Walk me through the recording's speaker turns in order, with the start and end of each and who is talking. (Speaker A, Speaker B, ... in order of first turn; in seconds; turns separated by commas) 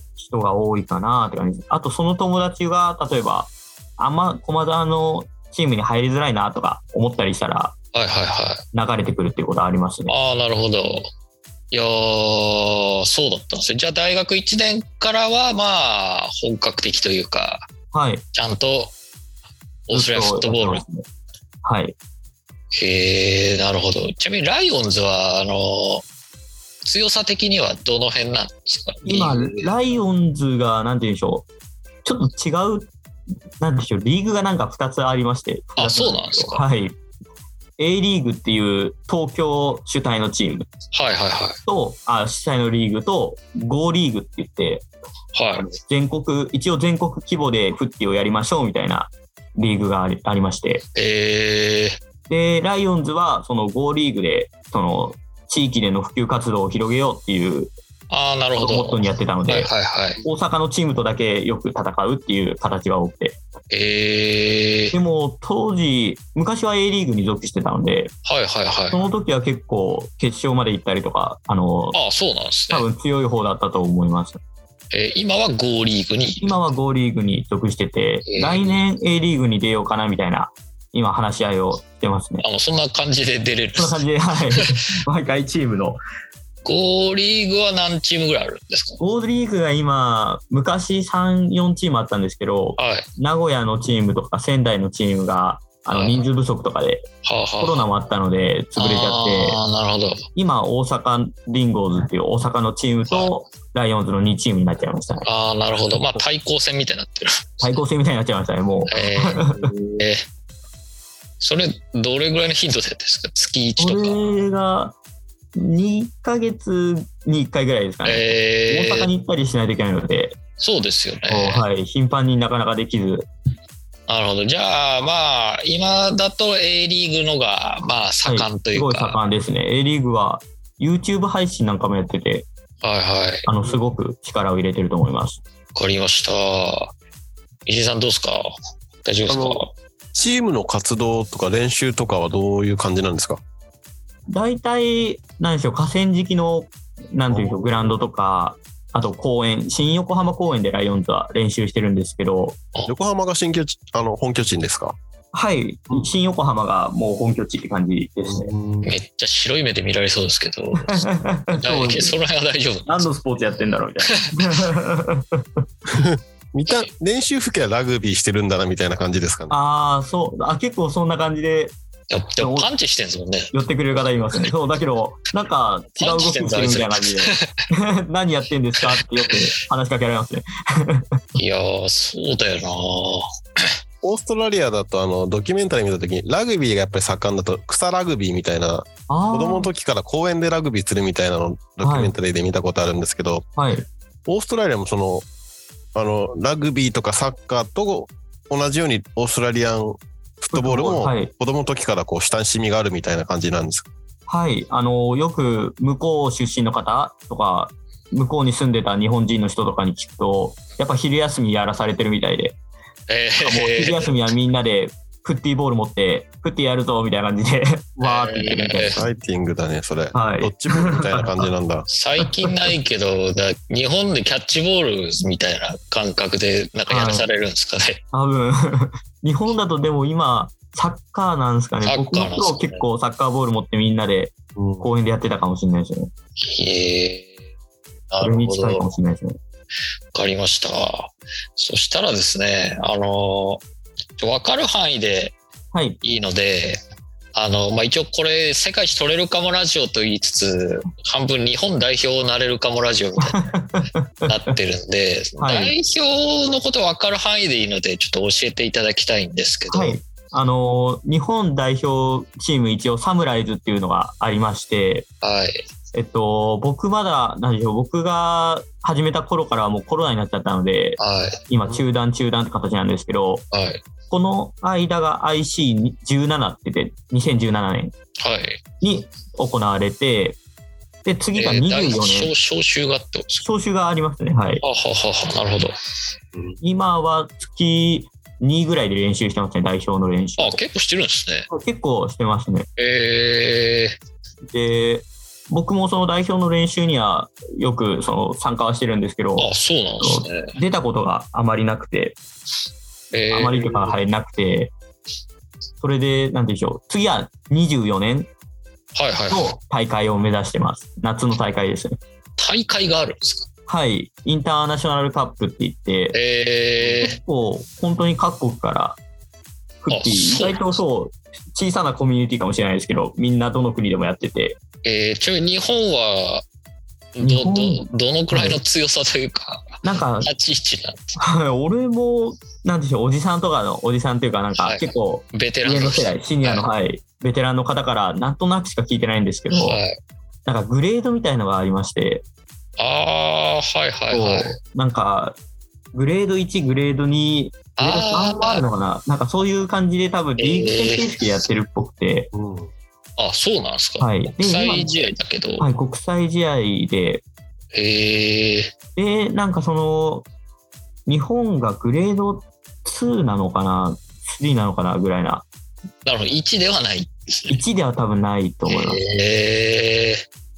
Speaker A: 0.2-7.8, Speaker B: 7.9-8.6, Speaker A: 8.7-10.2, Speaker B: 10.1-11.1, Speaker B: 11.7-17.6, Speaker A: 17.9-18.2, Speaker B: 18.3-18.9, Speaker B: 19.9-20.8, Speaker A: 19.9-21.1, Speaker A: 21.6-22.0, Speaker B: 22.7-26.1, Speaker B: 26.8-29.7, Speaker A: 29.1-31.5, Speaker A: 32.0-32.9, Speaker A: 33.6-37.0, Speaker B: 35.8-36.6, Speaker A: 37.8-40.7, Speaker B: 40.9-41.6, Speaker A: 41.7-44.9, Speaker B: 45.3-45.7, Speaker A: 45.6-50.9, Speaker B: 51.0-52.0, Speaker A: 52.3-57.7, Speaker B: 58.1-60.2, Speaker A: 58.6-59.7, Speaker A: 60.2-63.4, Speaker B: 63.7-65.0, Speaker A: 64.9-68.1, Speaker B: 68.2-69.0, Speaker A: 68.9-72.0, Speaker B: 71.9-72.9, Speaker A: 72.7-74.4, Speaker B: 74.9-76.6, Speaker A: 76.4-82.4, Speaker B: 78.3-78.8, Speaker B: 82.4-84.7, Speaker A: 83.8-86.0, Speaker B: 86.7-89.0, Speaker A: 89.0-97.0, Speaker B: 92.8-93.1, Speaker B: 95.9-96.2, Speaker B: 97.2-97.9, Speaker A: 97.6-99.6, Speaker B: 98.8-100.2, Speaker A: 100.4-105.3, Speaker B: 103.1-103.3, Speaker B: 105.2-107.8, Speaker A: 106.0-106.2, Speaker A: 107.6-109.7, Speaker B: 108.9-110.2, Speaker B: 111.4-114.2, Speaker A: 113.8-115.0, Speaker A: 115.5-120.4, Speaker B: 118.0-119.1, Speaker B: 120.6-121.7, Speaker A: 121.3-123.3, Speaker B: 124.1-129.2, Speaker A: 128.2-132.5, Speaker B: 132.8-133.5, Speaker A: 133.5-135.4, Speaker B: 135.8-136.9, Speaker B: 137.7-138.5, Speaker B: 139.0-139.7, Speaker C: 139.3-143.4, Speaker A: 144.3-152.6, Speaker C: 147.3-147.7, Speaker C: 152.9-155.0, Speaker A: 155.3-158.5, Speaker C: 158.3-158.9, Speaker B: 158.8-163.1, Speaker A: 160.8-162.2, Speaker A: 162.9-165.5, Speaker C: 165.9-169.6, Speaker A: 169.5-171.8, Speaker B: 172.1-173.5, Speaker A: 172.4-172.7, Speaker A: 173.5-181.4, Speaker B: 176.0-177.5, Speaker B: 178.8-179.4, Speaker B: 181.4-183.7, Speaker C: 184.0-193.5, Speaker A: 189.1-189.7, Speaker A: 191.8-192.1, Speaker A: 193.6-193.9, Speaker C: 194.3-195.3, Speaker C: 195.9-203.9, Speaker A: 200.5-201.3, Speaker A: 204.3-212.6, Speaker B: 213.1-214.2, Speaker A: 213.4-219.1, Speaker B: 218.0-219.0, Speaker C: 219.0-221.9, Speaker A: 220.1-221.5, Speaker B: 221.9-228.0, Speaker A: 226.9-227.3, Speaker A: 228.1-236.1, Speaker B: 231.8-232.8, Speaker C: 234.6-234.9, Speaker B: 236.4-237.3, Speaker B: 238.1-238.9, Speaker A: 238.2-239.4, Speaker B: 240.1-243.6, Speaker B: 244.2-245.4, Speaker A: 245.7-246.0, Speaker B: 246.0-246.8, Speaker B: 247.3-253.4, Speaker A: 253.3-254.5, Speaker B: 254.3-260.0, Speaker A: 255.4-255.7, Speaker A: 259.7-265.1, Speaker B: 265.2-265.6, Speaker A: 265.9-273.4, Speaker B: 271.0-271.4, Speaker B: 273.5-273.8, Speaker A: 274.1-277.9, Speaker B: 278.2-278.6, Speaker A: 278.8-280.4, Speaker A: 281.1-282.3, Speaker B: 281.4-283.5, Speaker A: 283.4-284.6, Speaker B: 284.6-285.7, Speaker A: 286.6-290.6, Speaker B: 290.4-291.5, Speaker A: 291.5-292.7, Speaker B: 292.8-294.0, Speaker A: 294.5-302.2, Speaker B: 299.4-300.5, Speaker B: 303.1-303.9, Speaker A: 303.3-304.7, Speaker A: 305.8-308.3, Speaker B: 308.9-309.6, Speaker A: 309.3-312.0, Speaker B: 312.4-313.5, Speaker A: 313.7-316.2, Speaker B: 316.1-317.2, Speaker A: 317.0-319.0, Speaker A: 319.8-324.6, Speaker B: 319.9-320.6, Speaker B: 324.8-326.4, Speaker B: 327.2-331.2, Speaker A: 327.2-328.6, Speaker A: 329.8-330.3, Speaker A: 331.2-339.8, Speaker B: 334.6-336.7, Speaker B: 339.5-340.0, Speaker A: 340.5-342.2, Speaker B: 342.8-344.6, Speaker A: 344.1-345.4, Speaker A: 345.9-352.3, Speaker B: 347.8-348.6, Speaker B: 350.4-351.1, Speaker C: 352.3-352.7, Speaker B: 353.2-355.7, Speaker A: 354.0-357.2, Speaker B: 357.7-358.7, Speaker A: 359.0-360.3, Speaker A: 361.1-365.5, Speaker B: 366.1-367.6, Speaker A: 367.5-369.0, Speaker B: 368.7-370.2